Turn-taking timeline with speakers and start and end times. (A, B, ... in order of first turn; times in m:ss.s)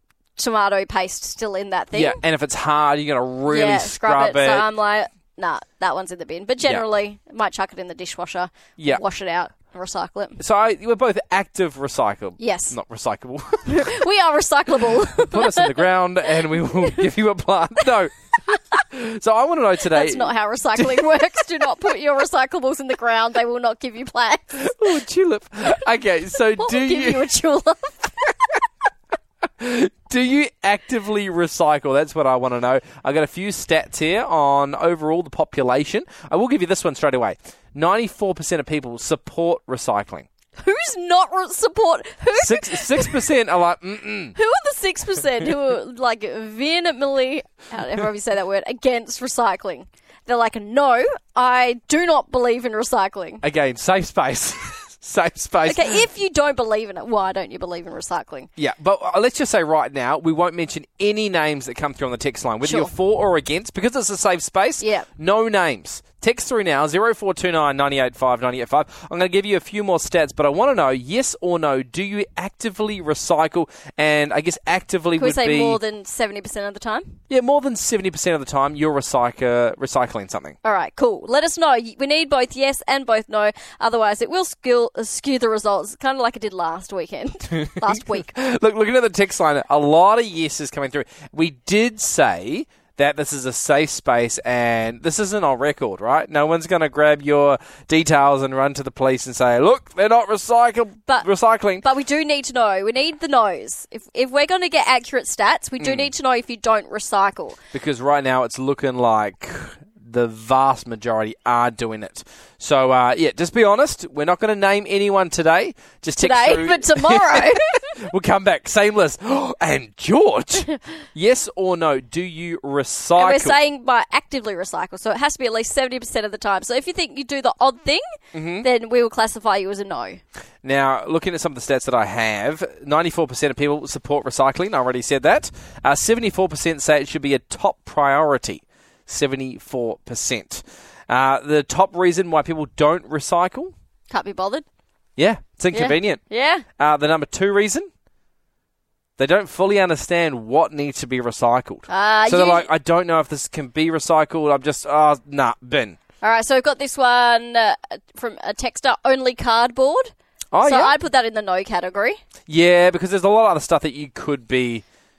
0:00.4-0:02.2 A
0:01.9-0:04.7 B
0:03.5-0:10.4 A
0:10.4-0:14.0 B
0:12.4-0:12.8 A
0:13.7-0:15.8 A
0:15.2-0:18.2 B
0:16.5-0:17.1 A
0:18.5-0:18.8 A
0:18.9-0:21.1 B
0:19.9-0:24.7 A
0:24.5-0:27.3 B
0:26.6-0:28.1 A
0:29.6-0:40.3 B
0:40.6-0:43.3 A
0:42.4-0:44.4 B
0:44.4-0:53.4 A
0:53.4-0:56.0 B
0:55.6-0:58.5 A
0:58.6-1:15.8 B
1:02.6-1:02.9 A
1:04.8-1:05.1 A
1:15.2-1:17.2 A
1:17.3-1:20.6 B
1:20.6-1:28.3 A
1:27.6-1:41.8 B
1:41.8-1:47.6 A
1:45.8-1:46.1 B
1:47.7-2:03.6 B
1:56.2-1:57.8 A
2:03.2-2:08.0 A
2:08.3-2:08.7 B
2:08.6-2:10.2 A
2:10.6-2:23.7 B
2:24.1-2:24.6 A
2:25.2-2:26.2 B
2:25.7-2:26.6 A
2:26.8-2:27.9 B
2:29.2-2:36.0 B
2:31.9-2:32.7 A
2:36.2-2:40.1 A
2:40.5-2:41.0 B
2:40.6-2:42.2 A
2:42.5-2:44.8 B